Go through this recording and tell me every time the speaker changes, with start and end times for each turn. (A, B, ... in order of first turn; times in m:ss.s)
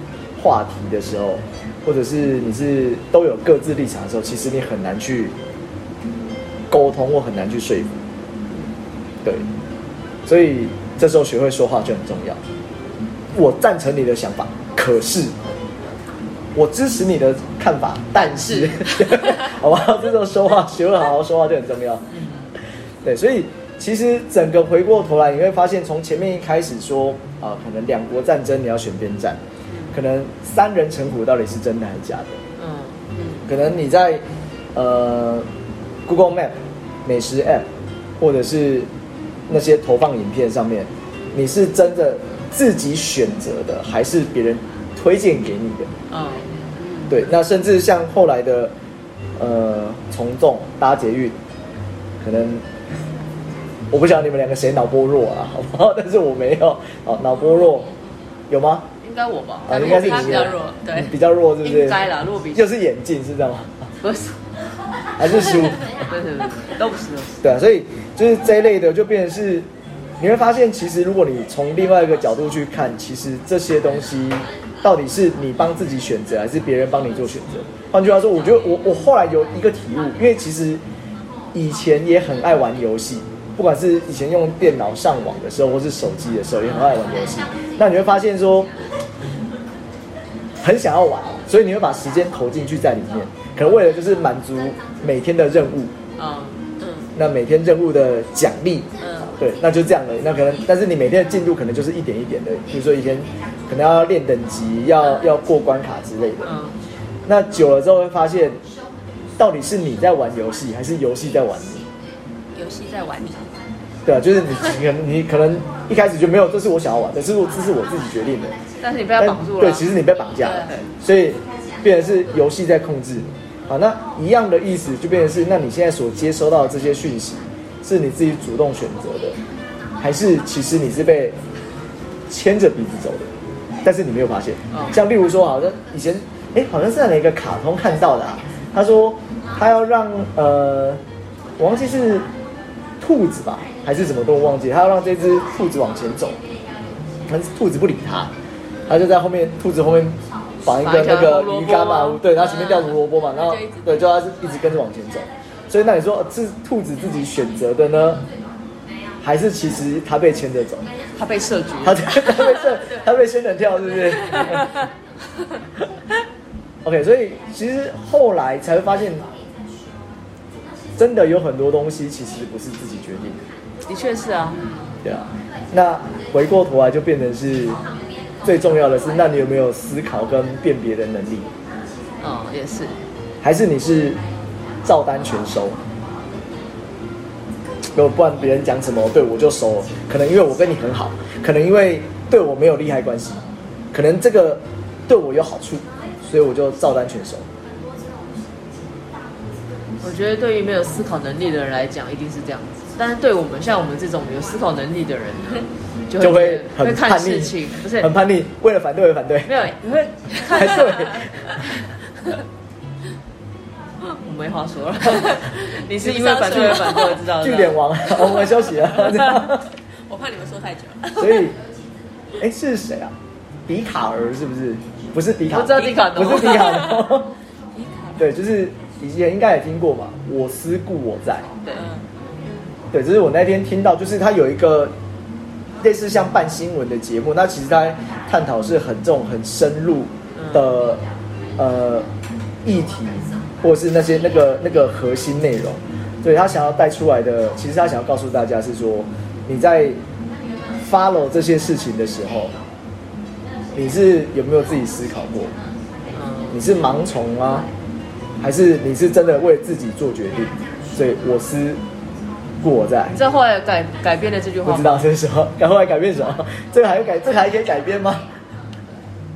0:00.4-0:05.3 A
0:06.7-0:08.0 A
0:10.2-0:12.4 A
0:13.3-0:15.4 A
0:16.5-0:22.0 A
0:18.5-0:18.8 B
0:22.1-0:22.5 B
0:23.0-0:29.4 A
0:29.9-0:32.4 A
0:32.6-0:33.0 B
0:33.1-0:33.4 C
0:33.4-0:34.2 A
0:34.7-0:35.5 A
0:36.0-0:37.7 A
0:38.2-0:38.9 A
0:39.5-0:45.9 A
0:46.1-0:46.5 B
0:46.7-0:47.2 C
0:47.1-0:48.7 A
0:49.4-0:51.4 A
0:52.2-0:52.6 A
0:53.9-0:57.9 A
0:58.5-0:58.9 A
0:59.0-1:00.5 B
0:59.7-1:03.9 A
0:59.7-1:01.1 C
1:01.6-1:02.7 B
1:04.0-1:04.4 B
1:05.2-1:05.8 A
1:05.4-1:07.4 B
1:07.4-1:09.7 A
1:10.2-1:20.8 A
1:21.5-1:28.7 A
1:30.6-1:35.9 A
1:36.2-1:36.6 B
1:36.8-1:37.1 C
1:37.1-1:46.5 A
1:39.0-1:39.3 C
1:46.4-1:46.8 B
1:47.2-1:48.6 A
1:49.4-1:51.9 A
1:52.5-1:53.5 C
1:54.0-1:58.6 A
1:58.8-1:59.9 B
1:59.2-2:09.4 A
2:00.4-2:00.8 C
2:10.0-2:11.4 A
2:12.3-2:13.3 A
2:13.8-2:21.0 A
2:14.7-2:15.0 B
2:21.6-2:22.3 A
2:23.0-2:26.4 A
2:27.3-2:28.3 A
2:28.9-2:38.3 A
2:30.7-2:32.2 B
2:32.3-2:34.0 C
2:39.2-2:40.9 A
2:41.2-2:42.3 B
2:41.8-2:44.7 A
2:42.3-2:42.8 C
2:44.0-2:44.4 C
2:46.8-2:49.2 A
2:51.0-2:53.4 A
2:53.8-2:54.7 B
2:55.0-2:57.8 A
2:58.4-3:01.5 A
3:02.2-3:03.0 B
3:03.4-3:04.2 A
3:04.8-3:05.8 A
3:07.9-3:17.5 A
3:20.0-3:28.1 B
3:26.2-3:29.5 A
3:29.4-3:31.3 B
3:30.5-3:31.3 A
3:34.0-3:37.8 B
3:35.1-3:37.2 C
3:37.3-3:39.6 A
3:38.2-3:39.3 C
3:39.0-3:39.3 B
3:40.1-3:41.5 C
3:41.1-3:41.6 A
3:42.4-3:43.1 A
3:43.7-3:47.3 A
3:45.5-3:47.1 B
3:46.4-3:46.8 C
3:48.2-3:51.5 A
3:51.7-3:52.0 C
3:52.9-3:54.9 A
3:55.8-4:01.0 A
4:00.3-4:00.7 B
4:01.6-4:02.1 A
4:02.6-4:10.0 A
4:10.8-4:12.6 A
4:13.7-4:15.6 A
4:16.1-4:16.6 B
4:16.5-4:17.7 A
4:18.4-4:21.8 A
4:22.6-4:23.1 A
4:23.1-4:25.1 B
4:24.6-4:28.3 A